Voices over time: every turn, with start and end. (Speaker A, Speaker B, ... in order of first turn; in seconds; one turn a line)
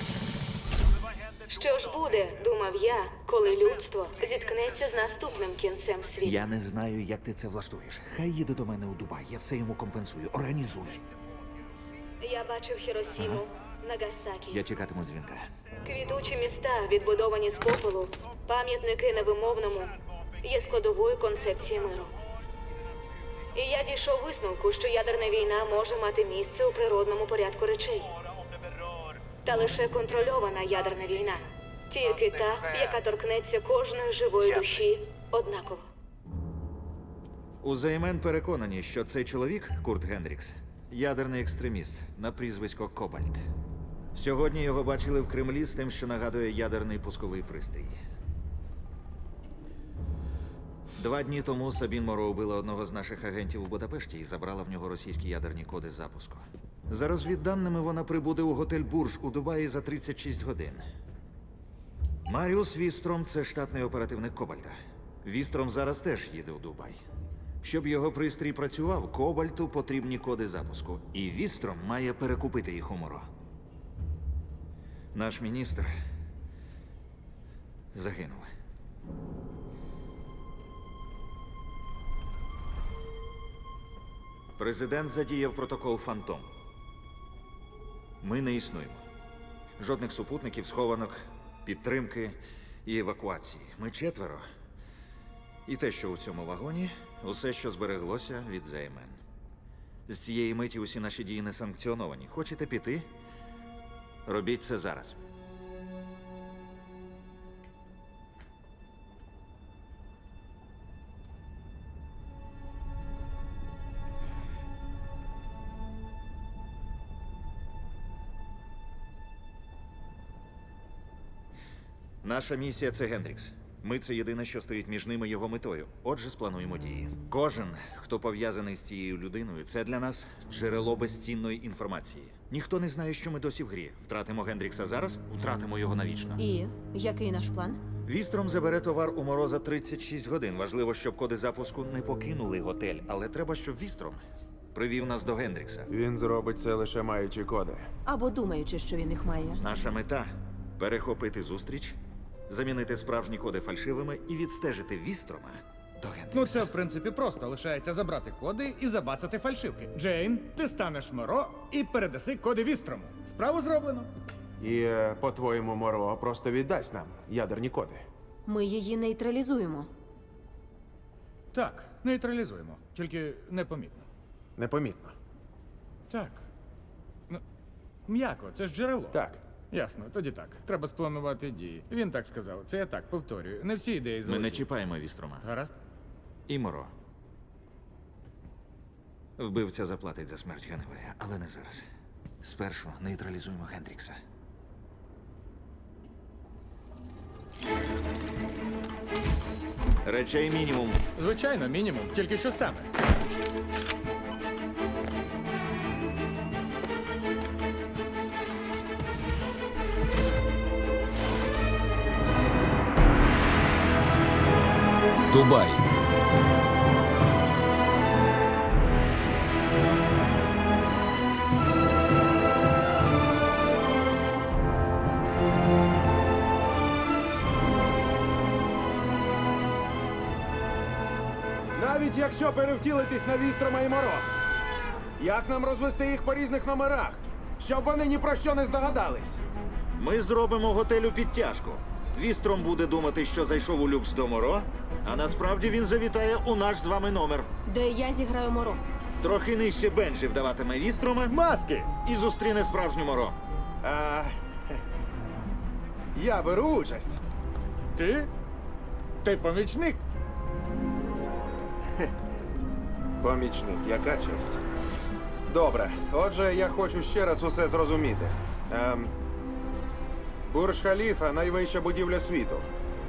Speaker A: 1.5-6.4
Speaker B: 6.2-11.0
Speaker A: 12.2-14.6
Speaker B: 13.2-13.4
Speaker B: 14.5-15.4
Speaker A: 15.8-22.1
Speaker A: 23.5-28.1
Speaker A: 29.4-35.9
Speaker B: 37.6-43.5
Speaker B: 44.1-48.0
Speaker B: 51.0-60.8
Speaker B: 62.2-67.0
Speaker B: 67.6-73.3
Speaker B: 75.1-75.9
Speaker B: 77.9-78.5
Speaker B: 84.6-86.5
Speaker B: 88.2-89.0
Speaker B: 89.8-94.4
Speaker B: 95.7-99.2
Speaker B: 100.1-103.1
Speaker B: 104.2-105.2
Speaker B: 122.2-136.4
Speaker C: 136.4-137.8
Speaker B: 138.0-144.2
Speaker B: 144.7-145.9
Speaker D: 145.9-147.9
Speaker C: 148.0-149.6
Speaker B: 149.6-156.6
Speaker E: 156.3-164.1
Speaker D: 164.6-168.0
Speaker C: 168.5-169.9
Speaker E: 171.5-174.1
Speaker D: 174.6-175.1
Speaker E: 176.1-176.5
Speaker E: 178.1-184.7
Speaker D: 179.1-179.4
Speaker B: 184.2-185.4
Speaker E: 185.4-185.8
Speaker B: 186.5-186.9
Speaker B: 189.4-191.9
Speaker B: 192.4-194.2
Speaker B: 200.0-201.0
Speaker E: 201.2-202.9
Speaker B: 215.3-215.8
Speaker D: 231.7-234.3
Speaker D: 235.2-239.4
Speaker B: 240.0-247.5
Speaker C: 247.7-248.8
Speaker B: 249.2-251.4
Speaker E: 251.3-251.9
Speaker B: 251.9-253.4
Speaker D: 253.8-254.3
Speaker D: 256.1-257.2
Speaker E: 257.9-258.3
Speaker E: 259.2-260.0
Speaker D: 263.2-264.6
Speaker D: 265.5-269.1
Speaker D: 270.5-272.7